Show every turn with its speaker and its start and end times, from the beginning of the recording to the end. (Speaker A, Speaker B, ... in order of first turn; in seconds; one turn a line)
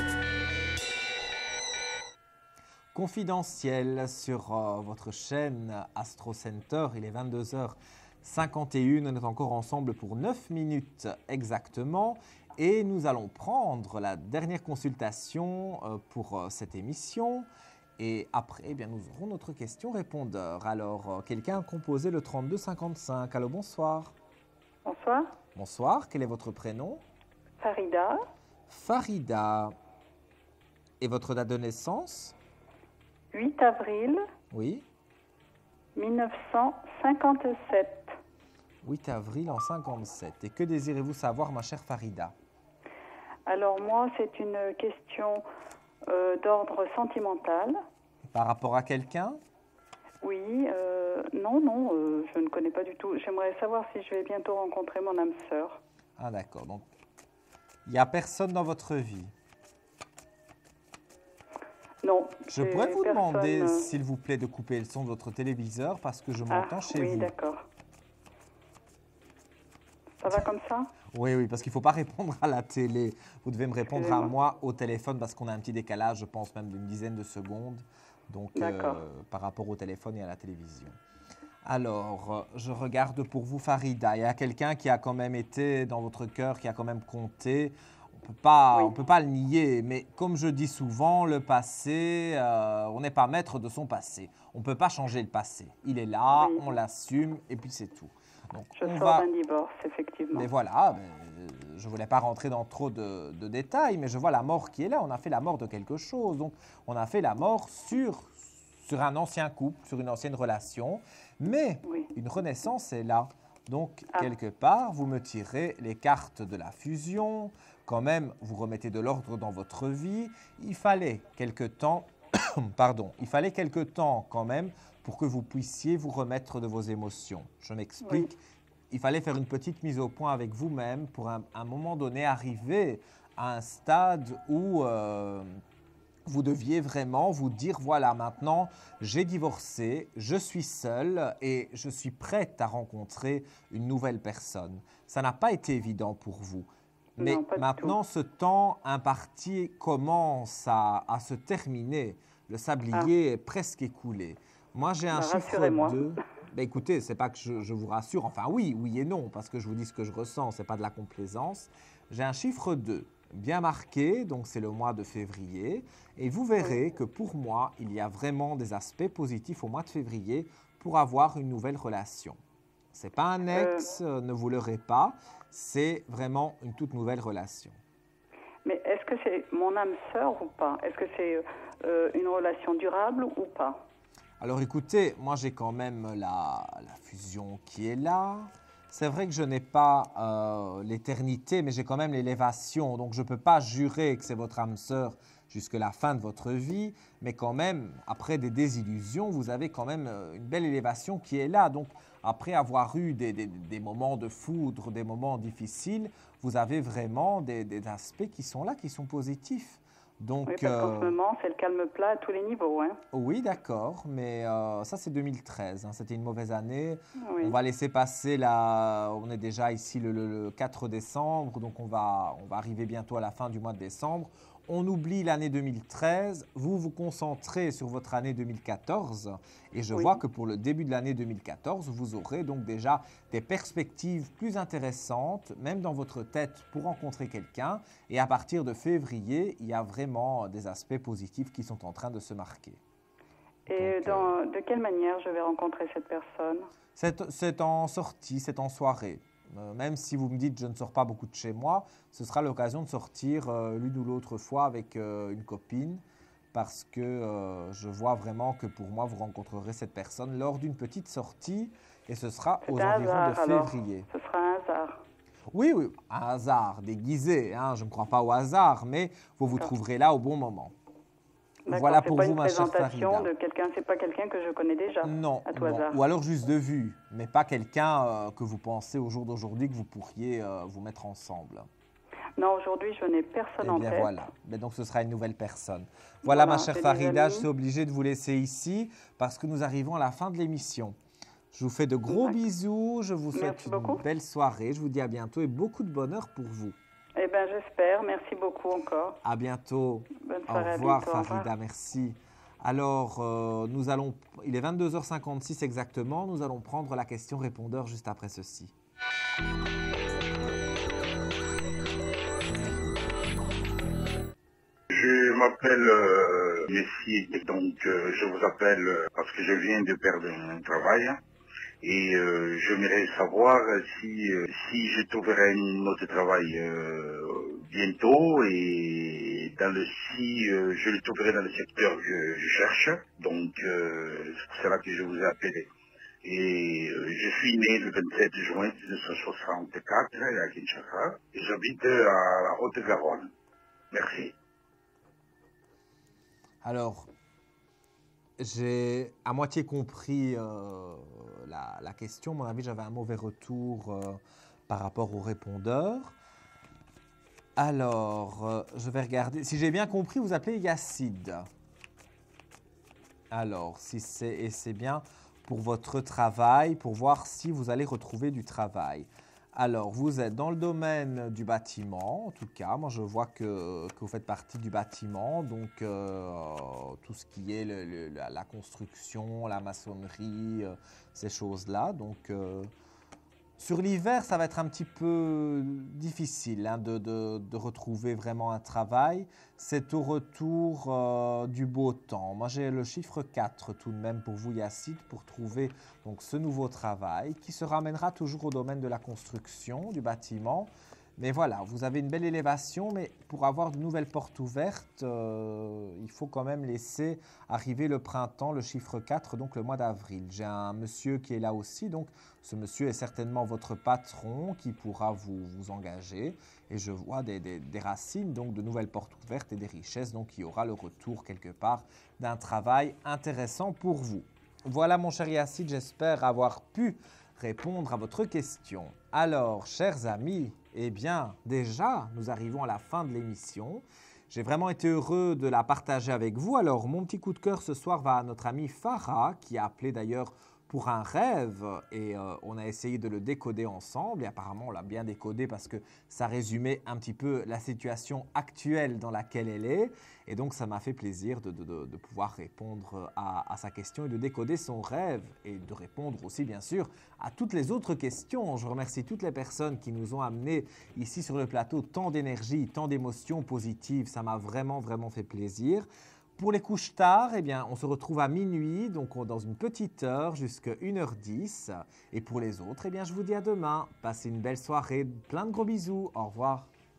Speaker A: 2.9-24.1
Speaker B: 24.9-25.3
Speaker A: 25.6-27.0
Speaker B: 27.6-28.2
Speaker A: 28.7-29.8
Speaker A: 31.0-32.4
Speaker B: 33.3-34.2
Speaker A: 34.5-34.9
Speaker B: 36.0-38.1
Speaker A: 38.8-42.4
Speaker B: 43.5-45.5
Speaker B: 46.1-47.8
Speaker A: 48.3-49.4
Speaker B: 50.2-55.8
Speaker A: 56.2-56.9
Speaker A: 57.9-59.3
Speaker B: 62.0-63.9
Speaker A: 62.5-67.3
Speaker B: 66.5-67.7
Speaker B: 70.2-70.9
Speaker A: 71.1-81.0
Speaker B: 73.9-74.3
Speaker B: 78.6-79.0
Speaker A: 81.6-99.3
Speaker B: 96.3-96.7
Speaker B: 98.8-100.5
Speaker A: 100.3-135.6
Speaker A: 136.3-172.4
Speaker B: 147.2-148.0
Speaker B: 155.1-156.1
Speaker A: 172.9-177.8
Speaker B: 173.5-173.9
Speaker B: 178.7-183.8
Speaker A: 184.4-211.2
Speaker B: 210.5-213.0
Speaker A: 213.1-242.8
Speaker B: 217.2-217.6
Speaker B: 243.7-246.7
Speaker A: 243.7-244.4
Speaker A: 247.0-264.1
Speaker B: 262.6-265.0
Speaker A: 265.5-270.8
Speaker B: 271.7-276.0
Speaker A: 271.7-273.3
Speaker A: 275.0-281.7
Speaker B: 282.4-284.1
Speaker A: 283.6-291.0
Speaker B: 286.2-287.5
Speaker A: 291.5-296.8
Speaker B: 292.1-292.4
Speaker B: 293.3-294.0
Speaker B: 297.2-299.2
Speaker A: 299.2-308.7
Speaker B: 300.2-301.5
Speaker C: 314.9-321.2
Speaker C: 321.8-335.7
Speaker C: 336.2-343.3
Speaker C: 343.9-344.3
Speaker A: 346.6-347.1
Speaker A: 348.4-356.1
Speaker A: 357.6-361.5
Speaker A: 363.3-382.7
Speaker A: 383.6-476.7